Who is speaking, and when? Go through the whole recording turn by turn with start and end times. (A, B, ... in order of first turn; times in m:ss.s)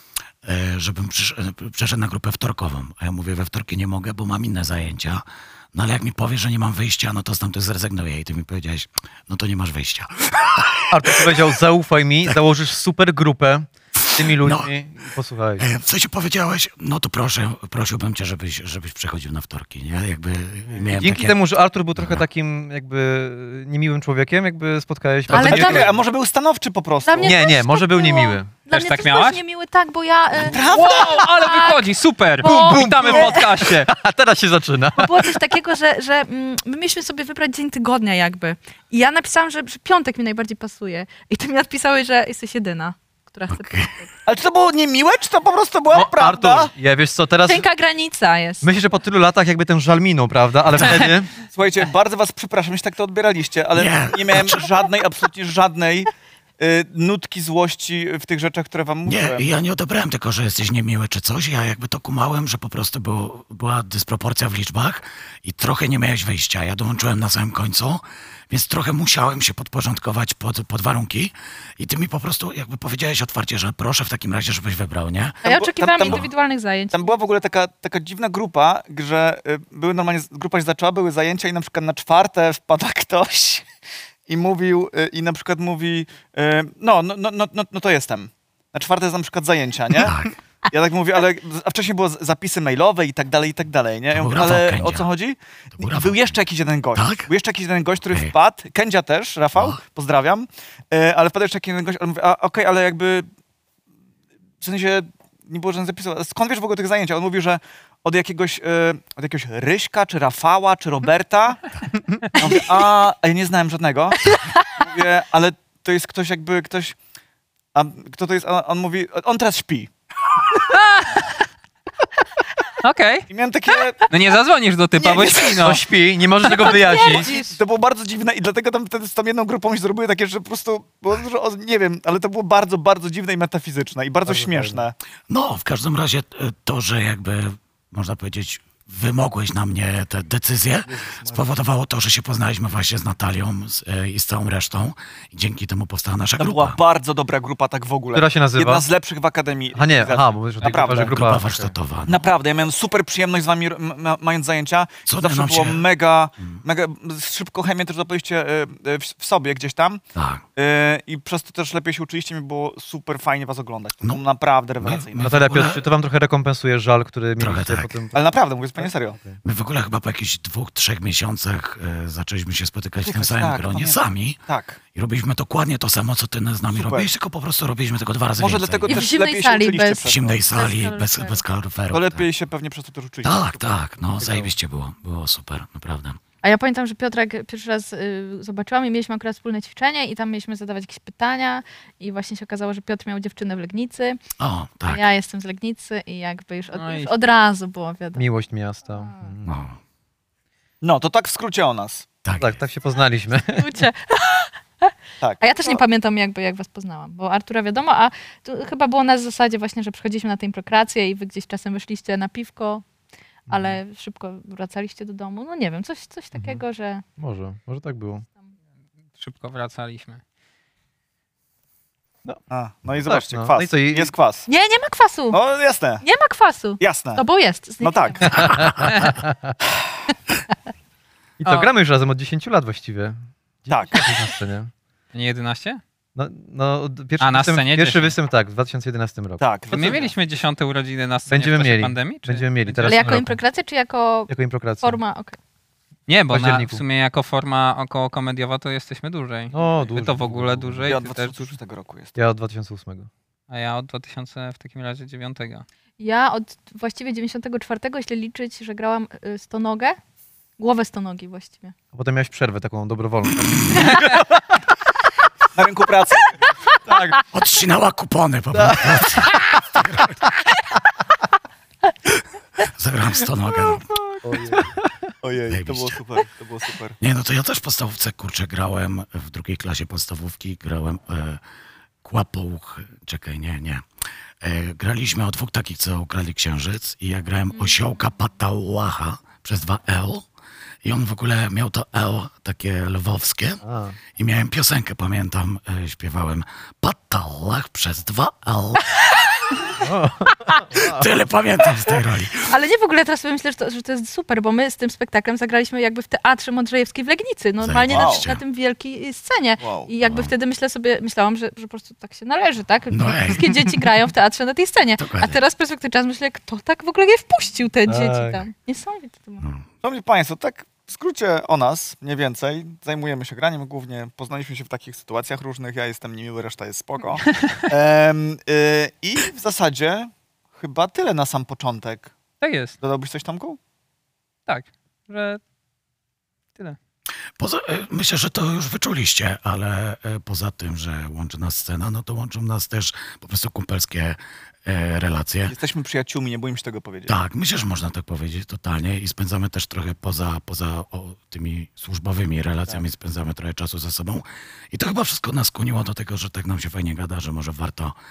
0:00.4-0:11.4 A
0:10.9-0:15.6 B
0:14.0-0:14.7 A
0:15.6-0:21.4 A
0:21.0-0:25.9 B
0:22.0-0:22.2 A
0:25.3-0:25.8 A
0:25.3-0:25.9 C
0:25.4-0:27.4 D
0:27.0-0:33.3 C
0:27.2-0:28.5 B
0:28.7-0:29.4 E
0:30.5-0:31.2 D
0:30.7-0:33.9 E
0:32.4-0:35.4 B
0:35.0-0:44.1 C
0:43.5-0:43.9 A
0:44.2-0:46.7 D
0:45.9-0:47.6 B
0:47.4-0:48.6 C
0:48.6-0:51.3 B
0:51.4-0:59.5 D
0:53.7-0:54.8 A
0:59.0-1:15.4 A
1:15.4-1:17.2 C
1:15.4-1:16.2 D
1:16.0-1:16.3 A
1:16.9-1:23.6 D
1:24.3-1:30.2 D
1:30.0-1:30.4 A
1:30.7-1:43.2 D
1:34.1-1:35.1 A
1:35.8-1:36.4 A
1:36.9-1:37.3 A
1:38.0-1:38.3 A
1:39.6-1:39.8 A
1:44.6-1:51.7 D
1:52.3-1:57.0 D
1:57.7-1:59.9 D
2:00.7-2:01.2 E
2:02.8-2:03.3 E
2:03.3-2:04.0 D
2:04.1-2:05.8 E
2:04.9-2:05.7 D
2:05.6-2:07.4 B
2:06.5-2:07.2 E
2:07.0-2:15.0 D
2:14.2-2:14.8 B
2:15.3-2:26.8 A
2:20.8-2:21.5 D
2:26.4-2:31.1 D
2:28.1-2:28.8 B
2:29.7-2:31.7 B
2:30.9-2:32.2 A
2:32.0-2:40.0 D
2:35.0-2:35.8 A
2:40.1-2:40.4 A
2:40.6-2:45.3 D
2:44.7-2:45.8 A
2:45.2-2:49.4 B
2:47.4-2:48.0 A
2:48.1-2:49.2 D
2:49.4-2:59.0 A
2:53.0-2:54.8 D
2:56.7-2:57.1 D
2:58.3-3:00.5 D
2:58.9-3:01.4 C
3:00.0-3:02.3 A
3:01.9-3:03.9 D
3:03.2-3:06.2 A
3:04.2-3:04.5 B
3:06.4-3:14.2 C
3:14.4-3:15.0 A
3:14.8-3:18.2 C
3:16.7-3:17.1 E
3:18.1-3:19.6 B
3:18.9-3:19.3 C
3:19.5-3:19.8 A
3:20.8-3:22.1 D
3:22.2-3:22.6 A
3:22.4-3:23.8 B
3:23.3-3:32.8 C
3:25.2-3:25.8 D
3:33.5-3:33.8 B
3:33.5-3:37.0 C
3:36.3-3:36.6 B
3:37.2-3:38.2 B
3:39.2-3:40.2 E
3:42.5-3:44.5 D
3:43.0-3:44.1 B
3:44.5-3:45.4 C
3:45.3-3:46.0 D
3:46.0-3:48.6 C
3:46.8-3:47.2 D
3:47.8-3:48.3 D
3:48.4-3:49.5 B
3:48.8-3:49.1 E
3:51.4-3:54.7 B
3:53.7-3:54.0 D
3:55.1-3:55.8 E
3:56.2-3:59.4 B
3:57.2-3:58.1 E
3:59.4-4:00.1 D
3:59.7-4:03.1 E
4:01.3-4:03.4 B
4:02.8-4:05.4 C
4:04.3-4:05.0 B
4:06.1-4:11.6 E
4:06.3-4:06.8 B
4:09.5-4:11.0 B
4:10.8-4:12.1 D
4:12.2-4:13.1 B
4:13.5-4:15.6 E
4:16.0-4:20.0 C
4:20.6-4:21.7 C
4:21.9-4:24.4 B
4:25.5-4:27.1 D
4:26.9-4:27.2 B
4:27.3-4:30.2 A
4:28.5-4:29.4 B
4:32.6-4:34.0 A
4:34.2-4:34.9 B
4:35.2-4:37.0 D
4:35.5-4:36.0 A
4:37.0-4:41.4 A
4:42.0-4:43.8 A
4:44.4-4:50.3 A
4:50.8-4:53.6 A
4:53.6-4:54.0 B
4:54.2-4:59.0 A
4:59.8-5:01.0 B
5:00.7-5:02.5 A
5:02.4-5:19.4 C
5:07.6-5:08.4 A
5:07.9-5:08.3 D
5:09.6-5:09.9 D
5:10.0-5:10.3 A
5:12.9-5:13.5 A
5:15.0-5:15.4 A
5:17.8-5:18.4 B
5:19.4-5:19.6 A
5:19.8-5:32.1 D
5:32.4-5:32.8 E
5:32.8-5:33.6 D
5:34.5-5:35.4 E
5:37.4-5:45.5 A
5:45.4-5:47.2 D
5:47.1-5:58.0 A